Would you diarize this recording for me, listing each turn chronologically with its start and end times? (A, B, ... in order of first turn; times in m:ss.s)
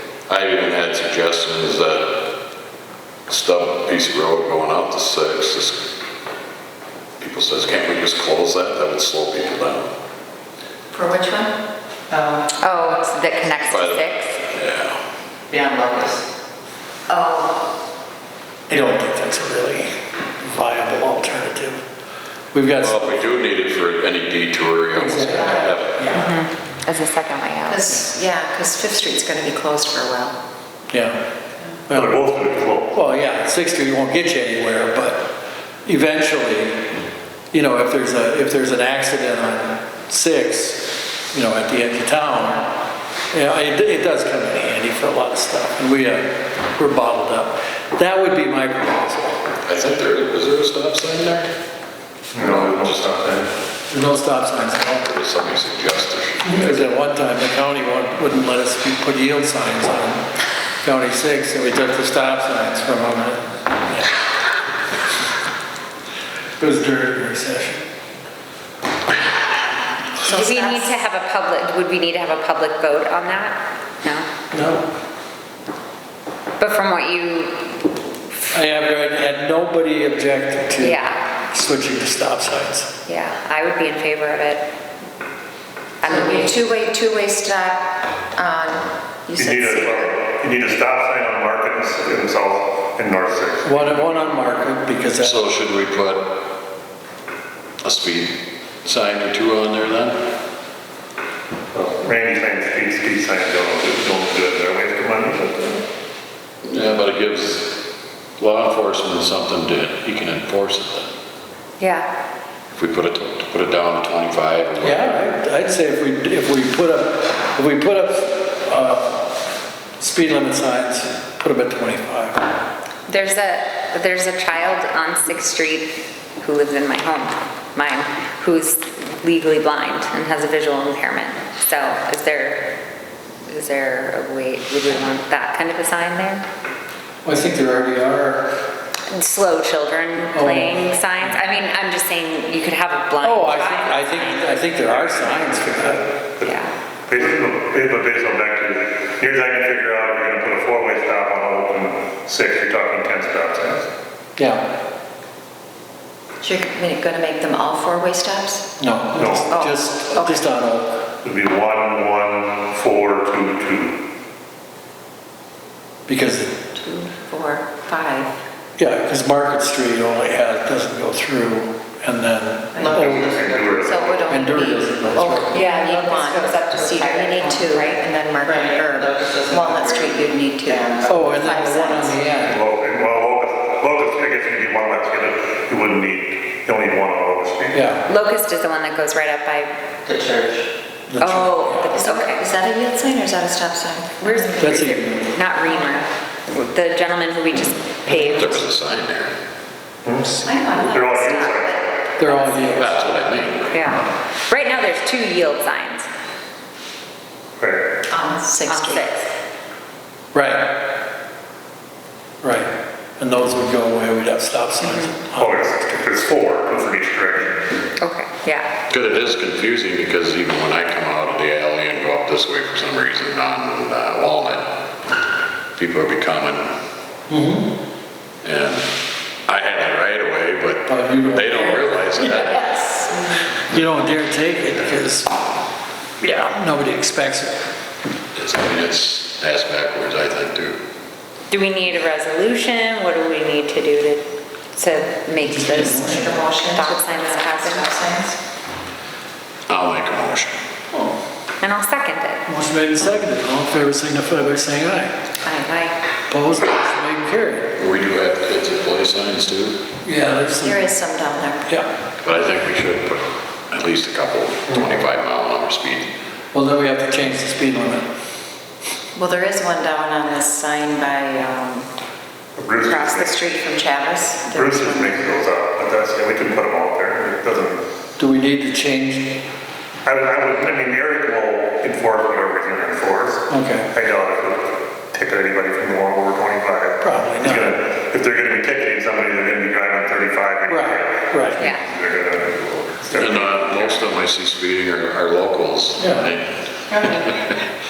0:00.3-0:02.3 A
0:03.3-0:05.9 A
0:07.2-0:09.9 A
0:10.9-0:11.5 B
0:12.1-0:12.5 C
0:12.6-0:14.4 D
0:13.7-0:15.0 A
0:15.5-0:16.2 C
0:17.1-0:17.5 B
0:18.7-0:21.8 E
0:22.5-0:23.1 E
0:22.8-0:26.1 A
0:24.9-0:26.3 E
0:26.1-0:27.9 D
0:27.7-0:30.4 B
0:30.9-0:31.2 E
0:31.9-0:32.3 E
0:31.9-0:33.0 F
0:32.9-0:35.3 E
0:35.8-0:36.9 E
0:37.5-0:42.7 E
0:43.3-0:49.4 E
0:49.6-0:51.5 A
0:52.3-0:53.4 F
0:52.4-0:53.1 A
0:53.9-0:55.0 E
0:55.0-0:56.8 A
0:56.4-1:00.2 E
1:00.8-1:04.1 E
1:06.6-1:07.9 E
1:10.2-1:14.3 D
1:10.2-1:10.9 B
1:14.5-1:14.9 E
1:16.6-1:17.9 D
1:18.5-1:22.9 E
1:20.8-1:21.2 D
1:23.0-1:24.7 D
1:26.0-1:26.6 D
1:26.0-1:30.3 B
1:29.4-1:34.4 F
1:33.6-1:35.4 E
1:35.2-1:36.4 A
1:37.8-1:40.2 A
1:41.7-1:45.8 F
1:46.6-1:47.8 A
1:48.4-1:51.1 A
1:51.8-1:52.1 D
1:52.7-1:55.4 A
1:54.8-1:59.3 E
2:00.0-2:02.4 E
2:03.1-2:12.8 D
2:13.4-2:16.4 D
2:17.2-2:18.6 E
2:19.1-2:24.9 D
2:20.3-2:20.7 E
2:23.2-2:26.1 E
2:26.4-2:26.7 D
2:27.1-2:33.9 F
2:34.4-2:34.6 E
2:36.4-2:38.7 B
2:38.8-2:41.0 E
2:39.1-2:39.5 F
2:39.5-2:40.4 B
2:41.2-2:44.0 F
2:46.1-2:46.5 E
2:46.7-2:48.4 B
2:48.8-2:53.4 E
2:52.7-2:53.1 B
2:52.8-2:54.0 C
2:53.0-2:54.4 F
2:53.8-3:02.2 B
2:54.3-2:55.7 E
2:55.5-2:58.0 D
2:58.4-3:01.3 C
3:01.0-3:02.6 E
3:02.4-3:07.8 F
3:07.7-3:08.0 E
3:08.0-3:09.7 D
3:10.0-3:10.7 C
3:11.1-3:11.9 E
3:11.2-3:12.4 D
3:11.9-3:14.6 B
3:14.2-3:18.6 D
3:14.6-3:15.1 E
3:18.1-3:19.4 A
3:20.0-3:22.2 F
3:20.4-3:22.8 B
3:22.2-3:23.0 E
3:22.7-3:23.9 A
3:23.7-3:26.1 D
3:27.6-3:27.9 F
3:28.1-3:29.0 B
3:28.6-3:29.3 D
3:30.3-3:30.7 E
3:32.4-3:35.6 E
3:34.8-3:35.1 D
3:35.4-3:37.7 F
3:38.0-3:38.7 D
3:38.9-3:44.7 A
3:45.8-3:46.8 A
3:47.3-3:47.7 E
3:48.4-3:48.9 A
3:49.4-3:52.7 A
3:50.8-3:55.3 E
3:56.2-3:57.6 E
3:58.3-4:00.8 A
4:01.5-4:07.9 D
4:05.5-4:06.3 E
4:05.8-4:08.4 B
4:09.7-4:10.6 A
4:11.6-4:12.4 D
4:12.4-4:15.1 E
4:15.5-4:15.9 D
4:16.3-4:17.7 E
4:17.8-4:19.8 A
4:20.0-4:20.8 E
4:20.6-4:21.7 B
4:22.2-4:26.1 A
4:26.5-4:28.1 E
4:29.2-4:31.9 B
4:32.6-4:33.3 F
4:32.8-4:35.4 B
4:34.5-4:37.8 F
4:38.2-4:39.4 E
4:40.0-4:54.0 F
4:43.5-4:43.9 E
4:47.0-4:47.7 E
4:50.7-4:51.6 E
4:53.1-4:56.5 A
4:56.0-4:56.3 E
4:56.9-4:57.5 B